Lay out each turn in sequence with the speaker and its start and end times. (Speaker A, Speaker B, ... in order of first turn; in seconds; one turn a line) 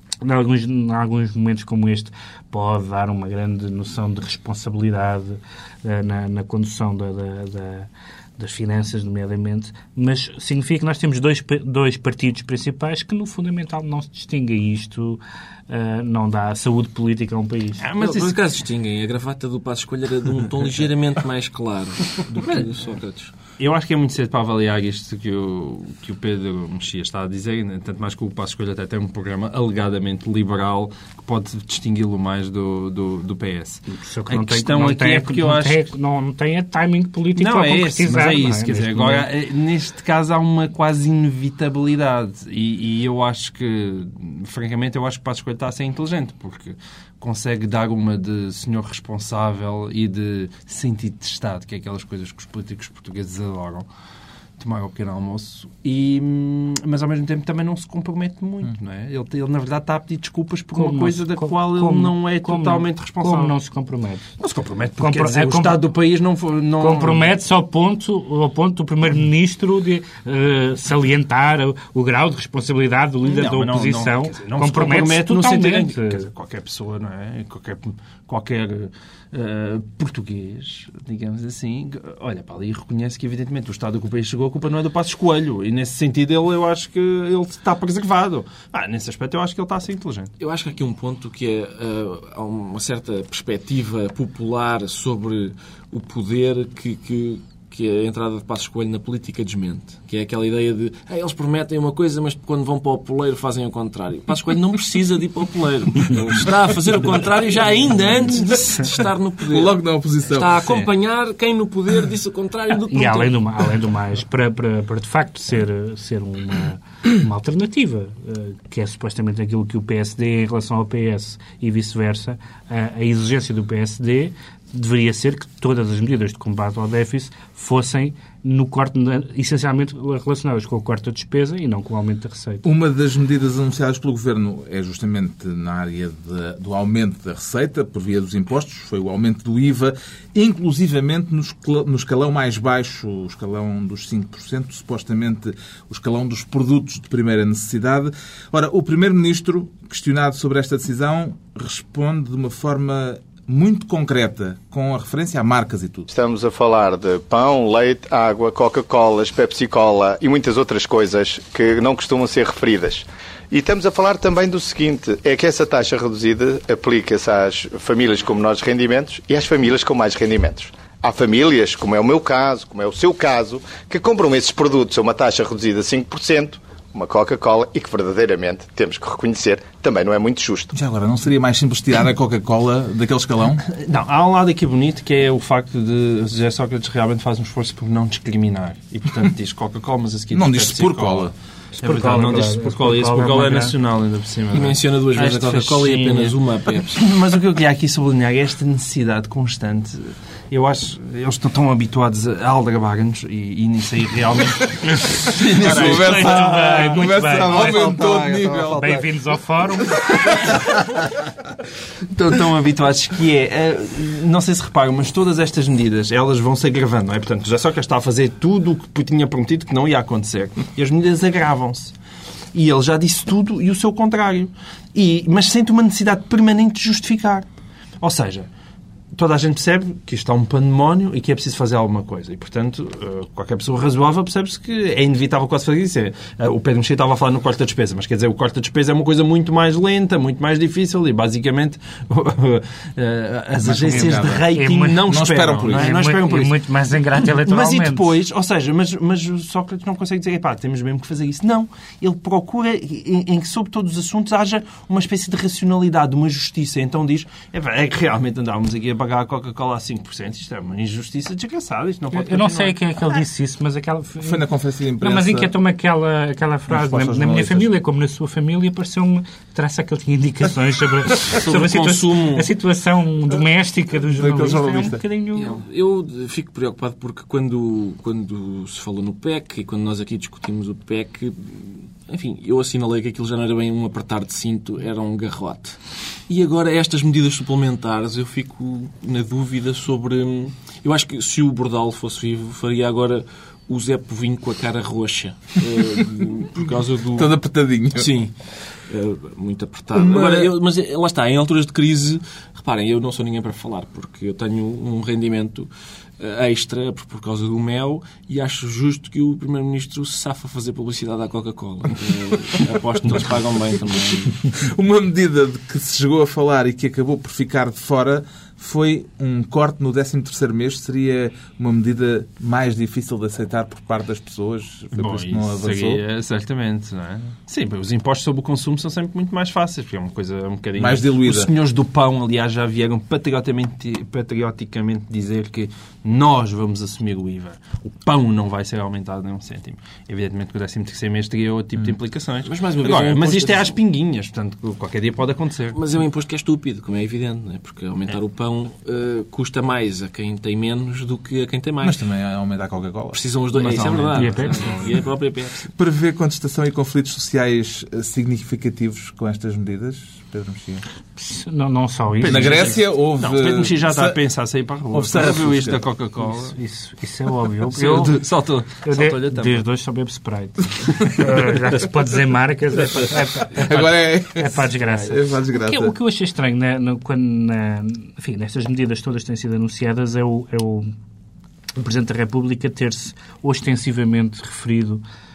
Speaker A: 0.2-17.9
Speaker B: 17.8-18.4
Speaker C: 18.0-23.3
Speaker B: 23.6-35.9
Speaker A: 33.9-39.3
Speaker B: 37.4-53.9
Speaker B: 54.6-63.5
Speaker A: 60.8-64.2
Speaker B: 64.4-67.3
Speaker A: 65.0-65.8
Speaker A: 66.8-76.3
Speaker B: 73.3-90.3
Speaker C: 90.4-113.3
Speaker D: 109.4-110.5
Speaker A: 112.9-132.7
Speaker D: 132.6-156.1
Speaker E: 156.1-180.7
Speaker D: 180.7-183.6
Speaker B: 183.7-196.4
Speaker D: 190.3-191.3
Speaker A: 191.8-193.7
Speaker C: 194.5-197.1
Speaker B: 196.9-209.1
Speaker D: 205.6-209.0
Speaker A: 205.6-208.0
Speaker A: 208.7-210.6
Speaker B: 210.2-210.8
Speaker B: 212.1-221.9
Speaker B: 222.5-227.5
Speaker B: 228.0-228.5
Speaker B: 229.1-262.8
Speaker D: 243.6-244.5
Speaker A: 243.8-248.1
Speaker D: 245.1-246.0
Speaker A: 262.1-264.4
Speaker D: 264.2-265.5
Speaker A: 265.0-275.6
Speaker D: 266.7-267.7
Speaker C: 271.4-272.4
Speaker D: 274.1-275.0
Speaker C: 275.4-297.3
Speaker D: 297.2-298.1
Speaker C: 297.9-298.3
Speaker C: 298.9-314.4
Speaker B: 299.9-300.5
Speaker D: 314.6-326.0
Speaker B: 324.9-345.8
Speaker D: 330.8-331.5
Speaker C: 342.4-343.8
Speaker C: 345.7-352.0
Speaker D: 351.8-353.2
Speaker C: 353.1-355.7
Speaker B: 353.5-354.9
Speaker A: 354.1-354.8
Speaker D: 355.8-360.8
Speaker A: 361.2-362.8
Speaker B: 362.2-366.6
Speaker D: 362.3-364.2
Speaker D: 364.9-365.8
Speaker A: 366.3-368.2
Speaker B: 367.7-369.6
Speaker A: 368.8-380.9
Speaker D: 373.5-375.9
Speaker A: 381.8-385.0